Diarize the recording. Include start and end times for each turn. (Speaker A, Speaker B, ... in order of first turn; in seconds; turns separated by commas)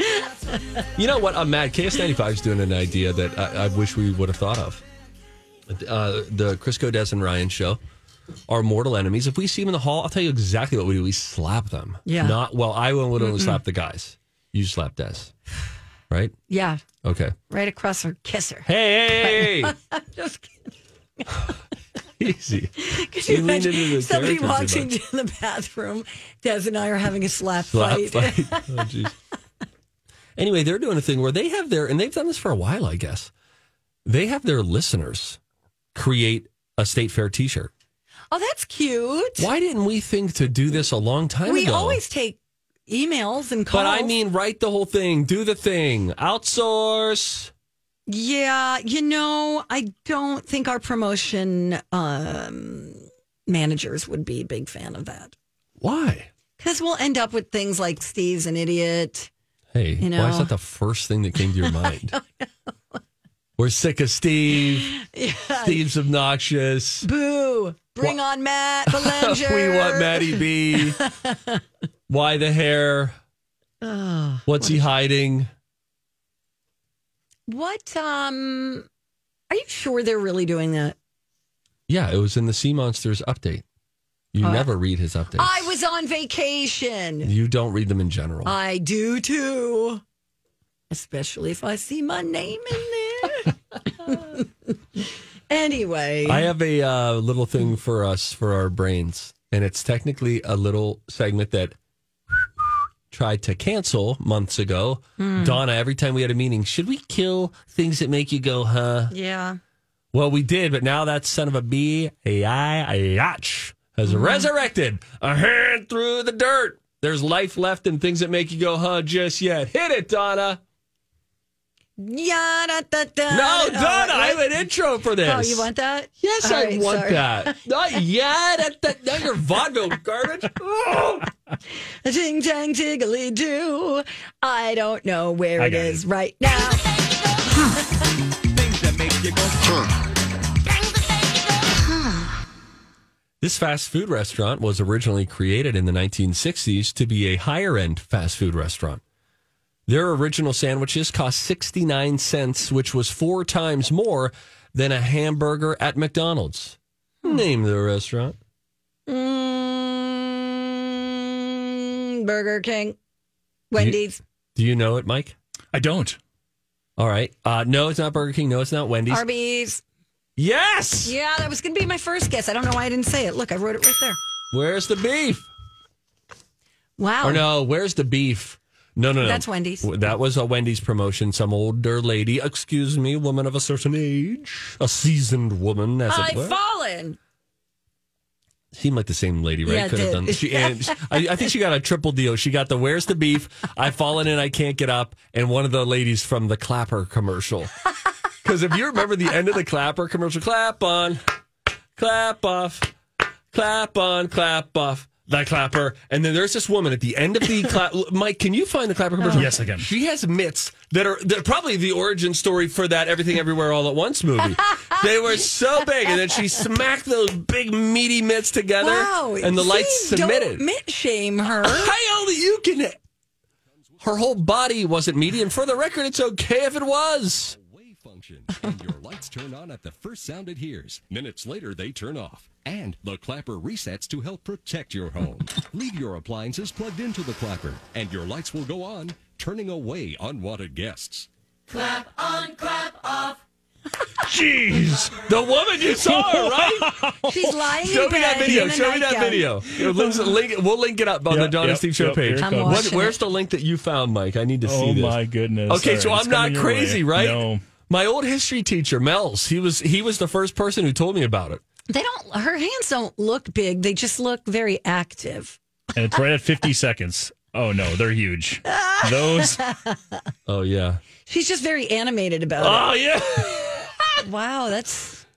Speaker A: 1.0-4.8, Speaker A: 5.7-7.8, Speaker A: 8.5-15.3, Speaker B: 12.1-12.4, Speaker B: 13.2-13.6, Speaker B: 16.5-16.8, Speaker A: 17.0-17.4, Speaker B: 17.5-21.5, Speaker A: 18.7-19.7, Speaker A: 22.2-24.9, Speaker B: 22.8-28.8, Speaker A: 27.7-29.1, Speaker A: 30.4-33.3, Speaker A: 34.0-35.4, Speaker A: 36.0-37.7, Speaker B: 38.3-39.5, Speaker A: 39.4-42.0, Speaker B: 41.5-44.1, Speaker A: 43.7-47.5, Speaker B: 48.1-55.3, Speaker A: 55.8-56.3, Speaker B: 56.6-59.3, Speaker A: 59.7-62.2, Speaker B: 60.0-60.5, Speaker B: 61.6-63.0, Speaker A: 63.6-65.0, Speaker B: 64.8-65.8, Speaker A: 65.7-67.1, Speaker B: 67.0-71.6, Speaker A: 68.9-71.0, Speaker A: 72.1-73.2, Speaker B: 73.8-74.9, Speaker A: 74.5-75.5, Speaker B: 77.5-78.9, Speaker B: 79.5-81.0, Speaker A: 81.9-83.6, Speaker A: 84.3-85.7, Speaker B: 84.4-84.7, Speaker B: 85.4-87.3, Speaker A: 87.2-88.5, Speaker B: 88.5-90.0, Speaker B: 90.9-94.5, Speaker B: 95.5-96.5, Speaker A: 96.2-101.8, Speaker A: 102.3-109.1, Speaker B: 105.2-105.6, Speaker B: 109.1-109.6, Speaker A: 110.1-120.6, Speaker B: 114.1-114.5, Speaker B: 122.0-124.6, Speaker A: 123.3-125.7, Speaker B: 125.2-127.6, Speaker A: 126.2-131.3, Speaker B: 132.0-136.8, Speaker C: 135.6-136.0, Speaker A: 143.4-149.0, Speaker A: 149.9-158.4, Speaker B: 159.1-163.0, Speaker B: 163.7-164.2, Speaker A: 164.6-165.3, Speaker C: 165.7-166.2, Speaker A: 167.0-169.2, Speaker B: 169.1-169.8, Speaker A: 170.4-171.1, Speaker B: 171.0-174.2, Speaker A: 174.5-175.5, Speaker B: 177.0-177.4, Speaker A: 177.2-186.6, Speaker B: 179.2-179.9, Speaker B: 186.1-187.2, Speaker A: 188.7-197.7, Speaker B: 189.7-191.2, Speaker A: 198.4-201.2, Speaker A: 202.0-202.9, Speaker A: 203.5-220.6, Speaker C: 209.3-209.9, Speaker B: 218.8-221.9, Speaker A: 221.6-223.0, Speaker D: 223.8-224.3, Speaker A: 224.0-227.6, Speaker D: 227.5-241.3, Speaker B: 241.8-243.3, Speaker C: 244.2-245.3, Speaker A: 245.2-261.6, Speaker C: 245.9-247.3, Speaker B: 247.2-249.5, Speaker C: 249.7-250.3, Speaker C: 251.3-253.0, Speaker B: 252.4-253.2, Speaker C: 254.6-257.6, Speaker B: 261.9-265.6, Speaker C: 265.9-269.6, Speaker B: 268.7-270.2, Speaker A: 270.5-271.0, Speaker B: 271.3-273.5, Speaker A: 272.6-274.1, Speaker B: 274.2-275.2